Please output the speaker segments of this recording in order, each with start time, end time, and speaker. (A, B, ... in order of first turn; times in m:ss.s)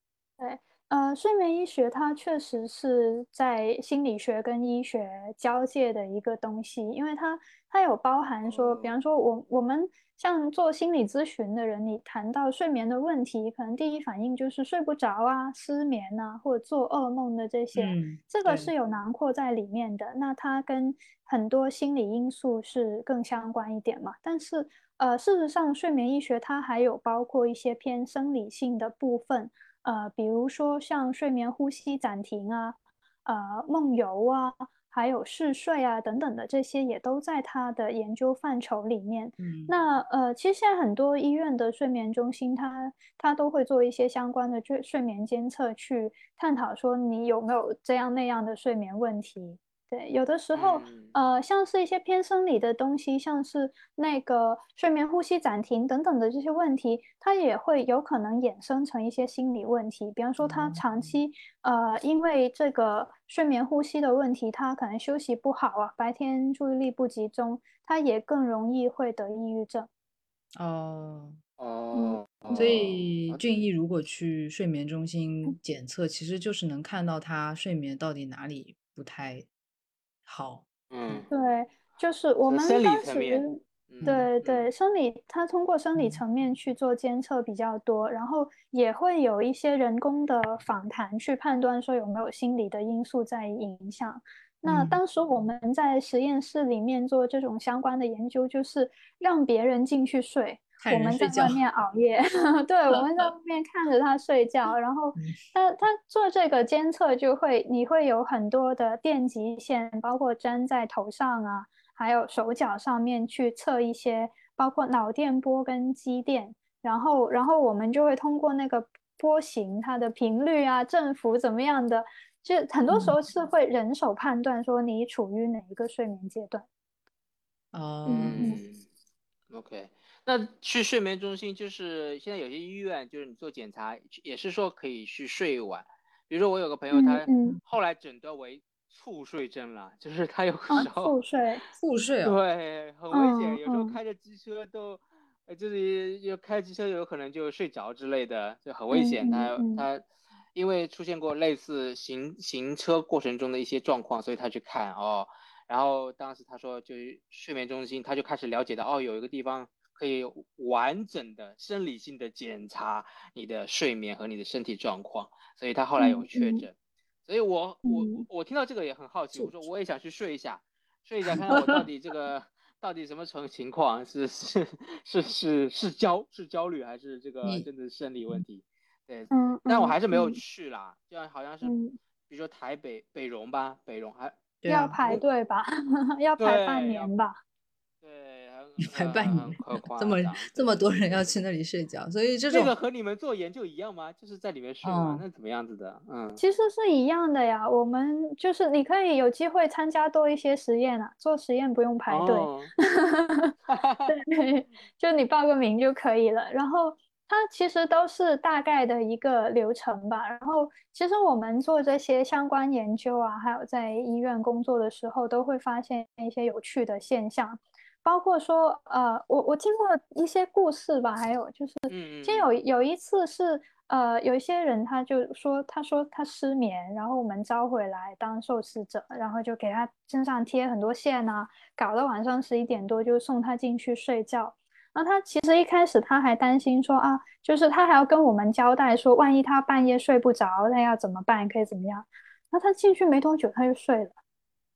0:00.4-1:09.9 A
0:08.5-0:08.9 B
0:17.8-0:18.7 C
0:39.4-0:39.8 C
0:50.5-0:51.1 B
1:00.4-1:01.2 C
1:10.6-1:11.4 C
1:11.6-1:13.4 B
1:11.9-1:12.7 A
1:12.6-1:19.5 C
1:20.3-1:21.3 C
1:20.9-1:21.3 B
1:21.3-2:06.7 A
1:22.5-1:24.7 B
1:24.0-1:24.3 C
1:26.0-1:26.2 C
1:34.7-1:35.0 C
1:40.8-1:41.6 C
1:42.9-1:43.3 C
2:02.9-2:03.2 C
2:07.7-2:08.6 C
2:08.1-2:08.6 A
2:08.2-2:08.8 B
2:09.5-2:21.1 B
2:16.9-2:17.6 A
2:20.7-2:21.6 A
2:21.8-2:22.4 C
2:22.2-3:01.7 B
2:23.1-2:24.0 A
2:28.9-2:29.8 A
2:46.0-2:46.6 A
2:47.8-2:48.3 A
2:49.4-2:49.6 C
2:51.5-2:51.8 C
2:59.3-3:00.4 A
3:01.6-3:02.0 A
3:02.3-3:04.4 B
3:04.6-3:05.0 C
3:04.7-3:07.4 A
3:06.4-3:07.1 B
3:08.0-3:11.3 B
3:08.9-3:12.7 C
3:12.5-3:16.4 B
3:14.8-3:15.2 C
3:16.4-3:23.5 A
3:22.1-3:22.7 B
3:23.7-3:24.2 B
3:24.1-4:04.2 A
3:41.9-3:42.5 B